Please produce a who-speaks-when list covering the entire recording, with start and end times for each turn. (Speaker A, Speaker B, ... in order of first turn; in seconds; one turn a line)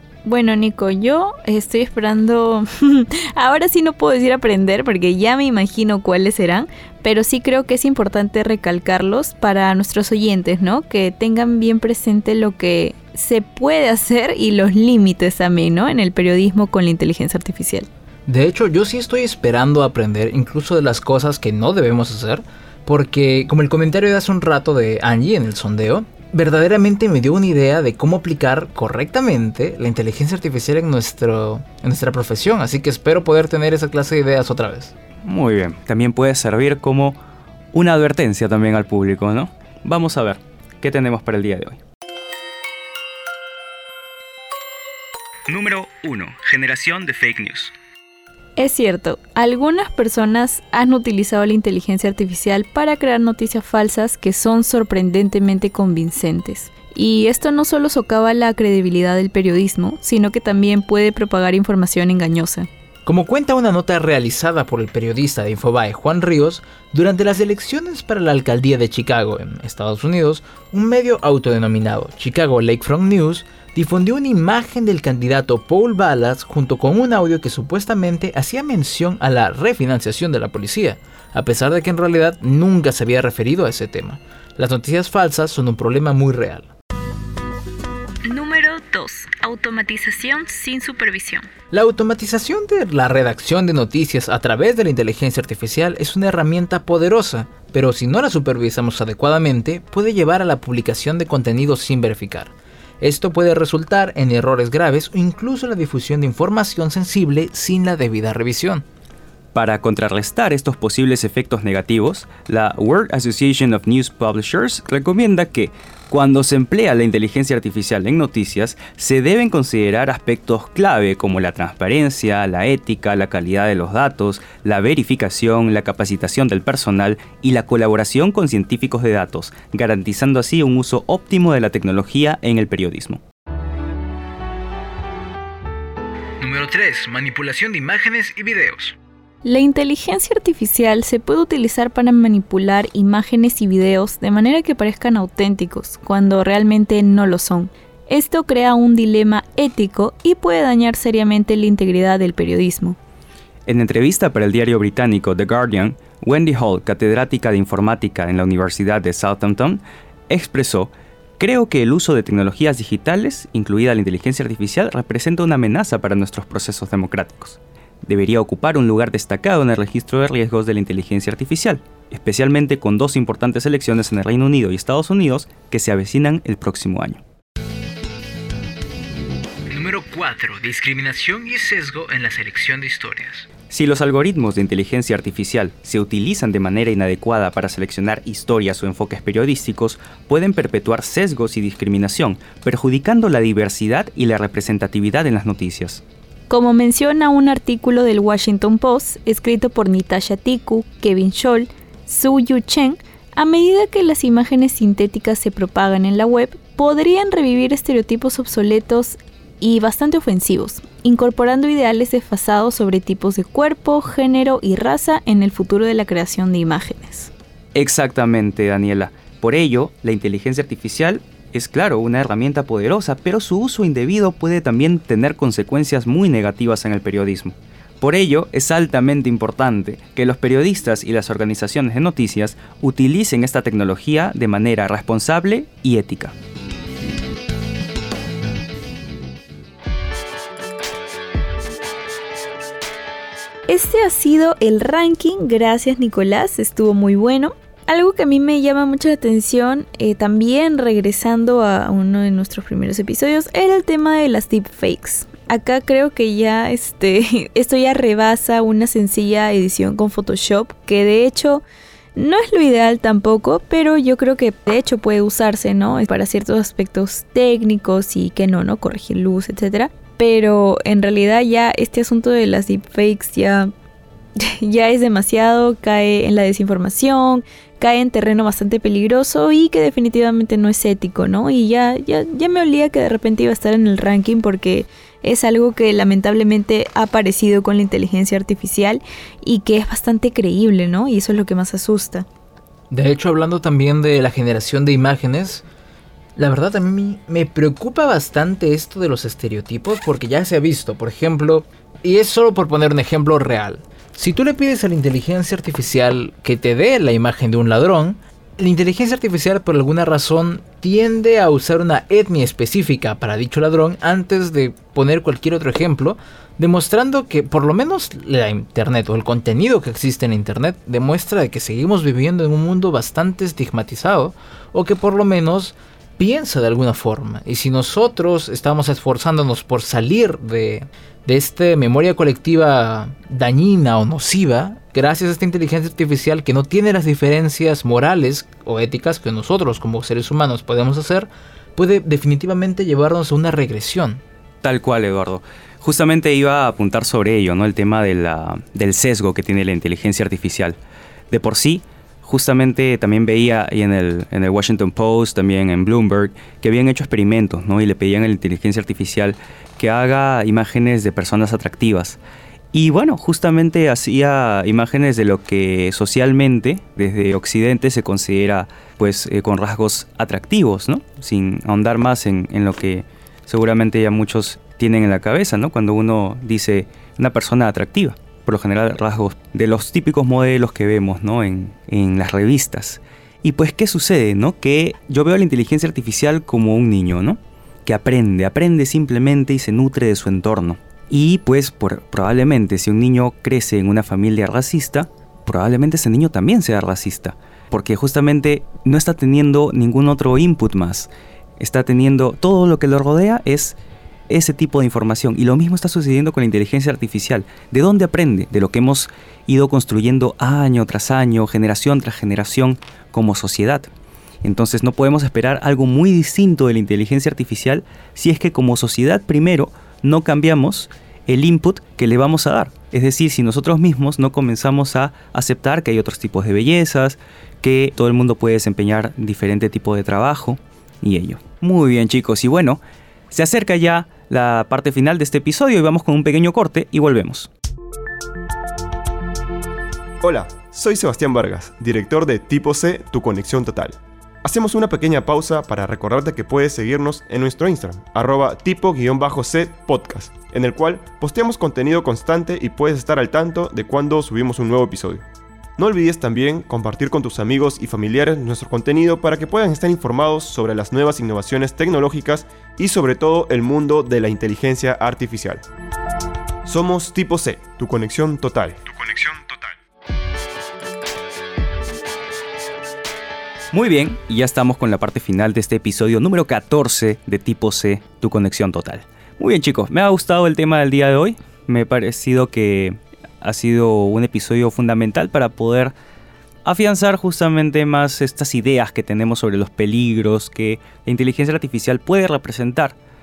Speaker A: 0.2-17.9
Speaker B: 18.3-34.9
Speaker C: 35.2-37.2
Speaker C: 37.7-41.8
Speaker C: 45.5-47.7
Speaker A: 48.6-62.7
Speaker B: 63.0-86.7
Speaker A: 88.2-91.5
Speaker B: 91.7-108.8
Speaker C: 109.5-133.2
Speaker B: 136.4-138.9
Speaker A: 139.4-153.0
Speaker C: 153.7-177.2
Speaker B: 179.7-183.5
Speaker C: 183.7-196.0
Speaker A: 196.5-217.3
Speaker C: 217.7-236.3
Speaker A: 243.7-261.6
Speaker A: 262.1-273.7
Speaker A: 274.4-292.3
Speaker B: 292.9-295.6
Speaker B: 296.4-344.2
Speaker C: 344.6-350.8
Speaker C: 351.3-362.2
Speaker C: 362.7-403.8
Speaker C: 404.3-413.9
Speaker C: 414.4-432.8
Speaker C: 433.3-437.5
Speaker D: 440.2-455.2
Speaker D: 455.8-465.6
Speaker D: 466.6-469.8
Speaker C: 473.7-485.9
Speaker C: 486.6-493.0